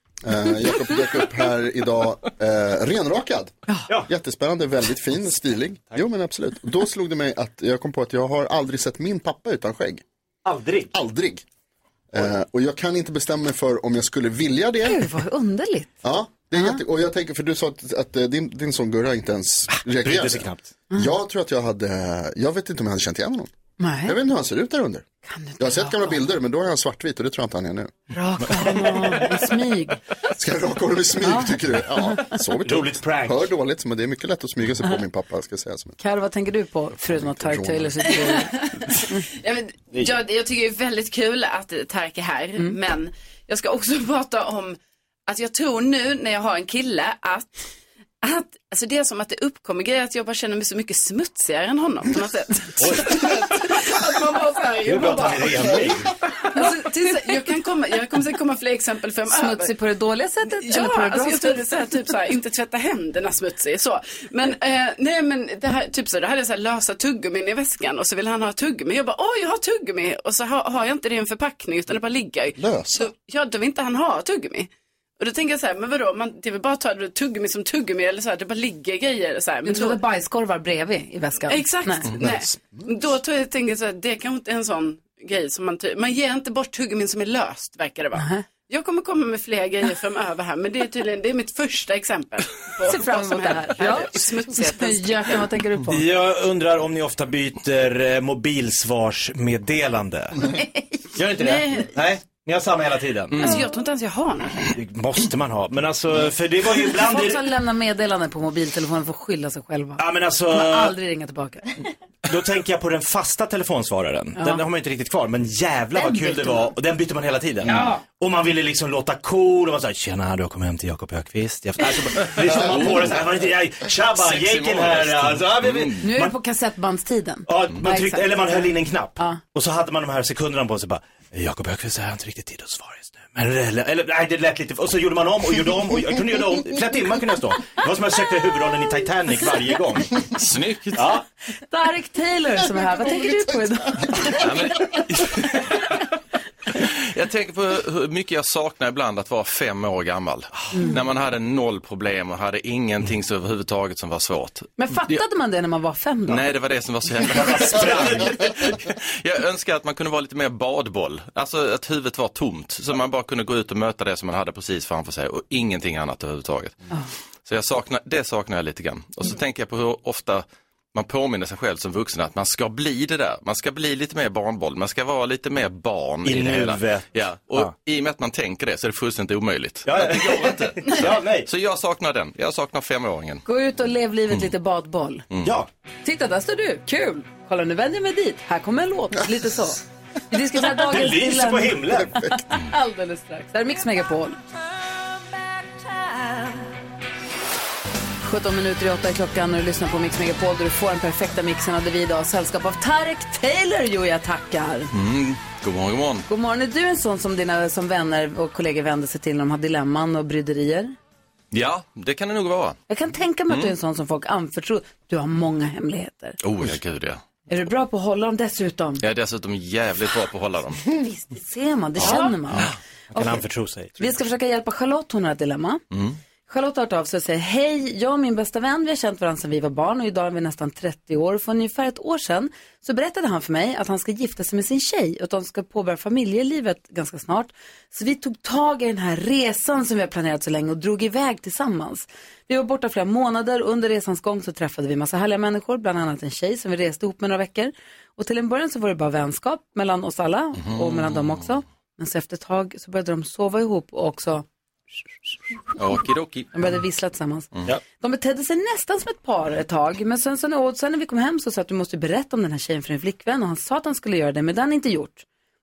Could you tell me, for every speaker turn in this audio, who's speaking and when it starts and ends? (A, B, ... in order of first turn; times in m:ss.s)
0:00.2-0:10.0 A
0:10.4-0:10.9 B
0:10.9-0:11.4 A
0:12.1-0:15.1 A
0:14.8-0:16.0 C
0:16.0-0:23.5 A
0:20.0-0:20.7 B
0:23.8-0:24.1 C
0:24.0-0:25.0 A
0:25.2-0:26.2 C
0:25.6-0:27.9 A
0:28.1-0:30.0 C
0:30.4-0:36.0 A
0:31.2-0:31.5 C
0:32.6-0:33.4 B
0:36.0-0:38.5 C
0:37.0-0:38.1 A
0:38.1-0:47.6 D
0:48.2-0:56.0 D
0:52.8-0:53.2 B
0:54.8-0:56.1 B
0:56.5-0:59.7 D
0:56.6-0:57.4 C
0:59.3-1:01.6 C
1:00.5-1:20.0 D
1:12.6-1:13.1 A
1:19.6-1:22.1 C
1:21.5-1:35.5 D
1:22.2-1:22.9 A
1:28.2-1:28.4 C
1:32.8-1:36.0 C
1:35.9-1:40.6 B
1:41.2-1:43.6 B
1:41.3-1:41.9 D
1:43.4-1:44.6 D
1:44.7-1:47.5 B
1:47.0-1:51.7 C
1:50.0-1:50.9 B
1:52.3-2:06.4 B
1:54.4-1:54.6 C
1:55.9-1:56.7 C
1:57.6-1:58.0 C
2:02.4-2:03.2 E
2:04.1-2:06.0 E
2:06.0-2:09.4 C
2:07.5-2:20.2 B
2:20.2-2:21.2 E
2:21.0-2:21.2 B
2:21.7-2:24.4 C
2:24.3-2:26.0 E
2:26.7-2:35.2 E
2:34.8-2:36.5 C
2:36.3-2:46.8 E
2:37.3-2:38.4 B
2:47.4-3:03.4 E
2:56.2-2:57.7 B
2:59.8-3:01.5 B
3:03.4-3:05.2 C
3:05.4-3:05.7 B
3:06.0-3:14.4 C
3:10.6-3:12.2 B
3:18.2-3:24.9 C
3:24.9-3:26.3 E
3:26.3-3:30.9 C
3:31.5-3:32.8 E
3:32.9-3:36.4 C
3:33.5-3:33.7 E
3:36.4-3:37.2 E
3:37.5-3:39.0 C
3:39.0-3:40.8 E
3:41.0-3:43.4 C
3:42.0-3:42.7 E
3:43.1-3:44.1 B
3:44.0-3:45.8 C
3:45.9-3:46.2 E
3:46.5-4:14.4 C
4:10.6-4:11.6 E
4:15.8-4:16.5 E
4:16.5-4:25.2 C